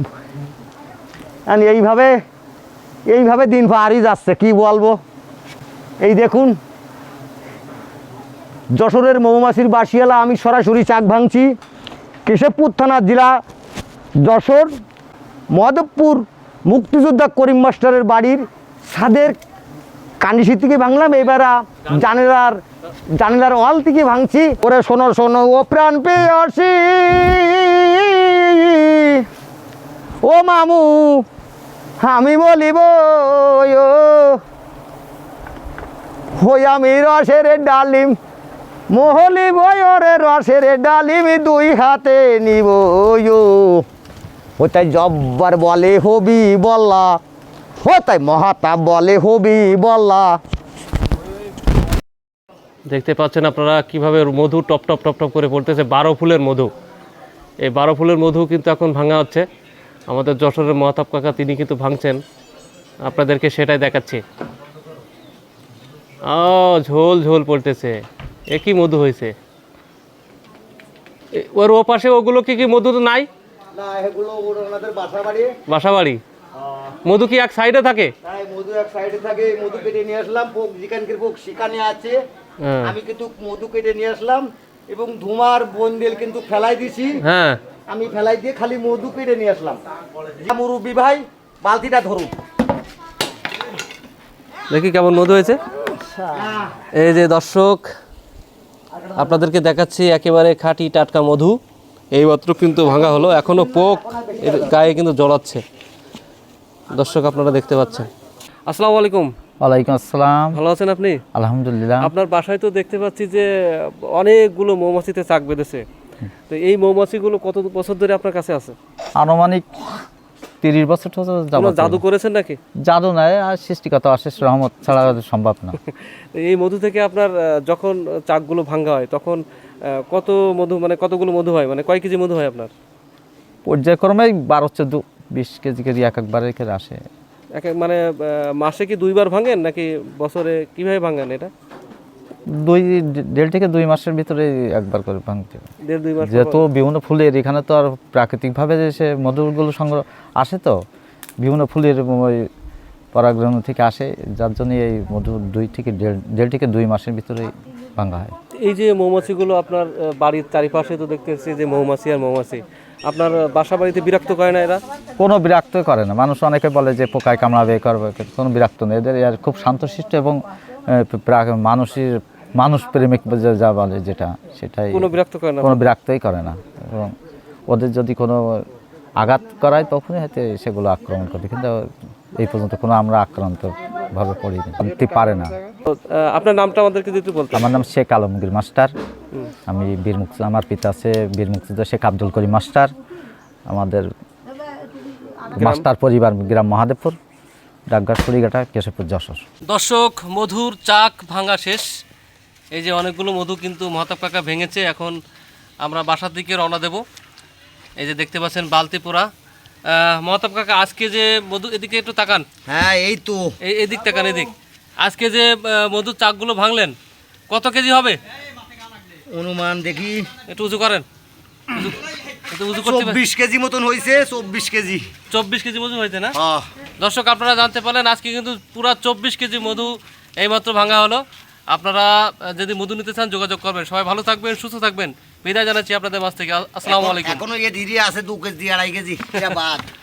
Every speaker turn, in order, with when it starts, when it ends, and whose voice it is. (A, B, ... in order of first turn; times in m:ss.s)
0:01.5-0:02.1 A
0:03.1-0:05.0 A
0:06.0-0:06.6 A
0:08.8-0:11.5 A
0:12.2-0:13.3 A
0:14.2-0:14.7 A
0:15.5-0:19.4 A
0:20.2-0:22.6 A
0:23.2-0:29.2 A
0:30.2-0:31.2 A
0:32.0-0:34.4 A
0:36.4-0:38.2 A
0:38.9-0:43.8 A
0:44.6-0:47.2 A
0:47.8-0:50.4 A
0:52.9-0:56.7 B
0:57.6-0:59.4 B
1:00.1-1:02.2 B
1:03.0-1:04.2 B
1:06.2-1:09.4 B
1:11.3-1:13.3 B
1:13.7-1:15.5 A
1:15.7-1:16.2 B
1:16.6-1:16.9 A
1:17.0-1:18.1 B
1:18.2-1:22.2 A
1:22.6-1:22.9 B
1:22.8-1:27.2 A
1:27.2-1:27.6 B
1:27.9-1:32.3 A
1:34.7-1:35.6 B
1:36.1-1:36.7 A
1:36.9-1:37.9 B
1:39.0-1:39.3 A
1:39.2-1:41.6 B
1:42.1-1:45.6 B
1:42.8-1:44.8 A
1:46.9-1:48.1 B
1:48.7-1:49.3 B
1:49.6-1:50.6 C
1:50.5-1:51.2 B
1:51.3-1:52.1 C
1:52.0-1:55.8 B
1:56.5-1:58.8 B
1:59.2-2:00.0 C
2:00.6-2:02.0 C
2:01.5-2:02.6 B
2:02.9-2:05.8 C
2:05.8-2:09.4 B
2:09.9-2:12.7 B
2:13.6-2:17.0 C
2:17.6-2:21.5 B
2:22.5-2:25.6 C
2:25.9-2:26.6 B
2:26.2-2:30.8 C
2:31.4-2:32.5 C
2:33.1-2:38.3 C
2:38.6-2:44.8 B
2:45.2-2:57.1 C
2:54.9-2:55.8 B
2:57.7-2:58.6 C
2:59.2-3:01.8 C
3:02.4-3:05.5 C
3:05.9-3:07.7 B
3:07.5-3:08.9 C
3:09.7-3:12.9 C
3:13.7-3:14.1 C
3:15.5-3:17.2 C
3:15.6-3:15.8 B
3:17.9-3:19.4 C
3:19.7-3:21.9 B
3:22.7-3:25.2 B
3:25.8-3:27.0 B
3:28.0-3:29.3 B
3:29.9-3:32.4 B
3:32.7-3:33.4 A
3:33.6-3:37.0 B
3:37.5-3:38.2 B
3:39.3-3:40.3 A
3:40.5-3:41.0 B
3:41.7-3:43.2 B
3:42.8-3:45.1 A
3:45.3-3:46.3 B
3:46.3-3:46.6 A
3:47.0-3:57.4 B
3:56.8-3:59.8 A